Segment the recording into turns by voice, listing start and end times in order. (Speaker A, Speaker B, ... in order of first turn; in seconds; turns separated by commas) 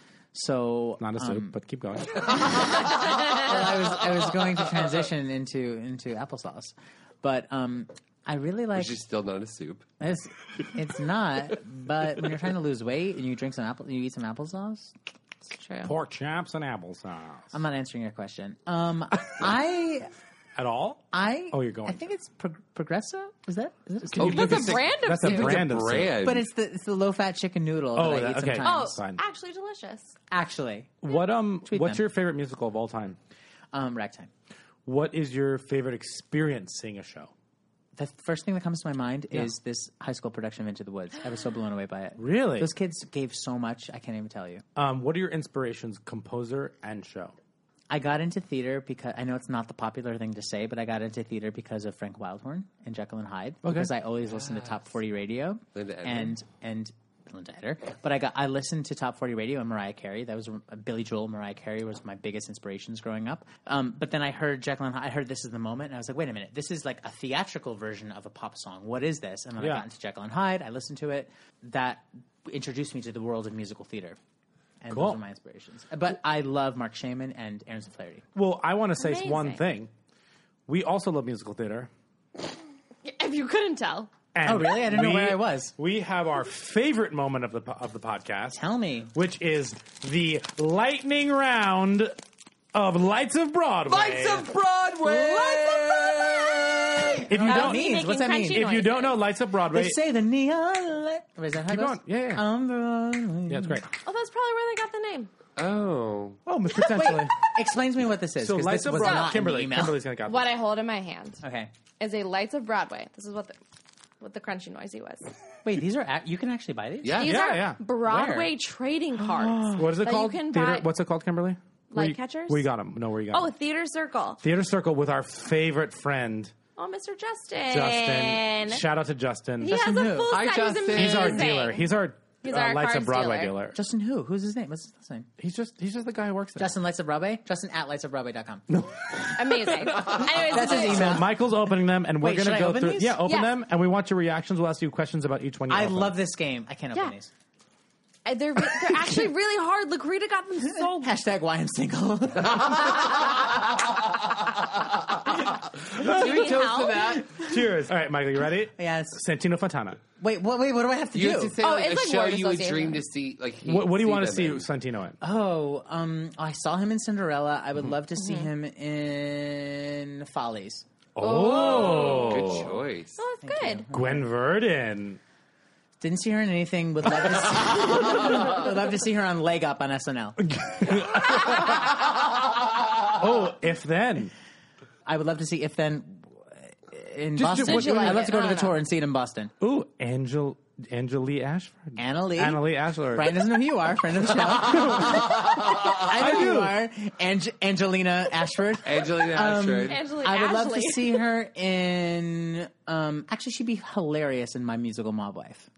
Speaker A: 0.3-1.6, Speaker B: 1.0-2.5, Speaker A: 2.5-9.0, Speaker C: 8.7-9.9, Speaker A: 10.0-14.9, Speaker D: 15.5-15.9, Speaker B: 15.8-17.5, Speaker A: 17.5-20.1, Speaker B: 20.6-22.1, Speaker A: 21.1-24.5, Speaker B: 24.1-26.2, Speaker C: 24.2-26.5, Speaker D: 24.2-25.6, Speaker A: 26.2-28.9, Speaker B: 27.9-29.2, Speaker D: 28.6-30.2, Speaker A: 30.3-30.9, Speaker B: 31.0-33.2, Speaker A: 31.6-32.0, Speaker A: 33.7-34.3, Speaker B: 34.9-37.3, Speaker A: 38.0-44.6, Speaker B: 42.2-42.7, Speaker B: 44.8-47.4, Speaker A: 47.9-74.2, Speaker B: 53.6-53.9, Speaker C: 54.3-54.8, Speaker C: 55.8-56.4, Speaker B: 69.6-69.8, Speaker A: 74.8-78.2, Speaker B: 74.9-75.2, Speaker B: 78.3-79.9, Speaker D: 79.0-79.6, Speaker B: 80.7-81.9, Speaker D: 83.0-84.1, Speaker B: 84.3-88.6, Speaker A: 84.4-85.8, Speaker A: 88.5-89.1, Speaker B: 89.1-92.1, Speaker B: 92.7-94.5, Speaker C: 93.9-97.3, Speaker D: 95.1-99.2, Speaker B: 97.3-100.0, Speaker A: 97.3-98.7, Speaker A: 99.7-103.8, Speaker B: 101.7-102.5, Speaker B: 103.5-103.9, Speaker D: 104.0-105.3, Speaker C: 105.6-106.4, Speaker B: 106.5-107.4, Speaker A: 106.8-110.0, Speaker B: 108.4-110.5, Speaker D: 109.0-109.3, Speaker D: 110.3-111.4, Speaker A: 111.4-111.7, Speaker D: 112.0-113.6, Speaker D: 114.2-115.3, Speaker A: 115.7-117.3, Speaker C: 117.0-117.5, Speaker D: 117.1-120.9, Speaker B: 117.2-117.8, Speaker A: 118.0-118.5, Speaker A: 119.5-119.8, Speaker B: 119.7-123.5, Speaker D: 121.9-122.7, Speaker D: 123.3-124.4, Speaker B: 124.4-126.5, Speaker D: 126.8-128.8, Speaker B: 127.7-129.8, Speaker D: 129.6-131.9, Speaker A: 129.7-130.4, Speaker C: 130.3-131.5, Speaker B: 130.9-133.8, Speaker D: 132.4-133.6, Speaker A: 133.7-135.3, Speaker B: 135.4-136.8, Speaker A: 136.6-138.7, Speaker B: 138.7-146.2, Speaker D: 139.3-141.2, Speaker A: 140.2-141.3, Speaker A: 142.2-143.2, Speaker D: 143.2-143.5, Speaker A: 145.7-147.3, Speaker D: 148.2-151.1, Speaker A: 150.7-153.2, Speaker C: 155.8-157.3, Speaker B: 156.0-156.5, Speaker D: 156.0-157.2, Speaker A: 157.0-157.7, Speaker B: 157.4-160.0, Speaker A: 158.8-159.2, Speaker A: 160.2-161.6, Speaker C: 161.1-164.7, Speaker D: 161.6-163.0, Speaker B: 163.6-165.2, Speaker A: 165.2-170.8, Speaker D: 168.2-168.5, Speaker B: 171.2-172.7, Speaker D: 171.2-172.6, Speaker C: 171.6-173.2, Speaker D: 173.2-173.8, Speaker A: 173.4-174.3, Speaker B: 173.9-175.2, Speaker A: 176.0-180.4, Speaker B: 180.4-182.0, Speaker D: 181.3-181.6, Speaker B: 183.1-184.3, Speaker A: 185.1-189.5, Speaker B: 187.4-188.3, Speaker D: 187.5-188.8, Speaker B: 189.6-193.4, Speaker A: 192.0-205.7, Speaker B: 194.7-196.8, Speaker C: 198.8-200.0, Speaker D: 199.9-201.2